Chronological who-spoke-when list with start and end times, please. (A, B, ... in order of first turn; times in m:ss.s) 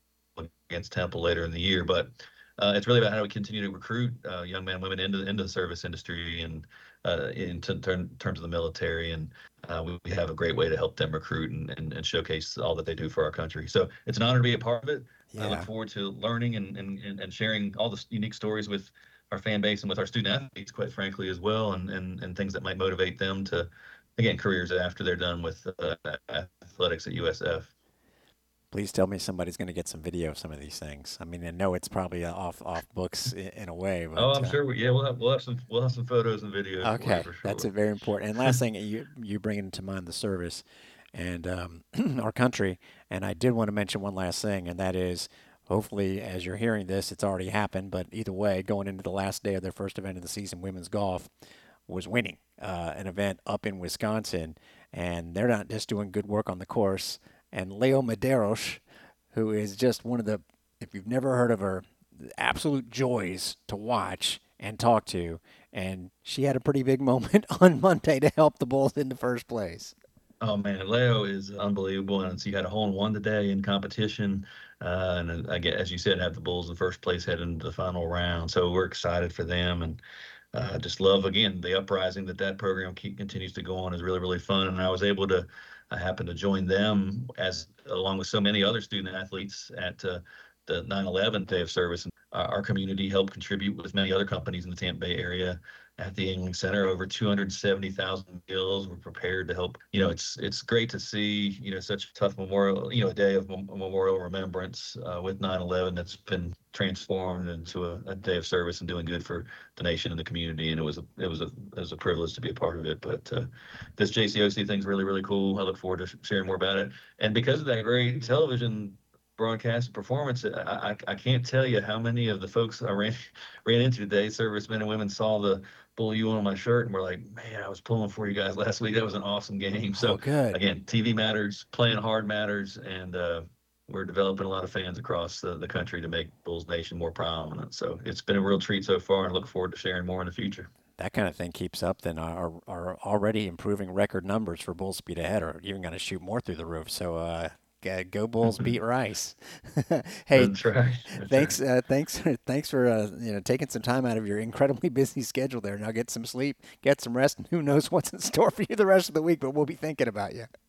0:00.4-0:27.7 A
0:15.3-0:15.7 B
0:28.7-0:34.6 B
0:34.2-0:37.7 A
0:36.8-0:51.3 B
0:51.9-1:10.0 B
1:10.4-1:20.0 A
1:20.5-2:20.7 A
2:09.9-2:10.6 B
2:21.0-2:30.6 B
2:30.3-2:31.6 A
2:31.1-2:40.5 B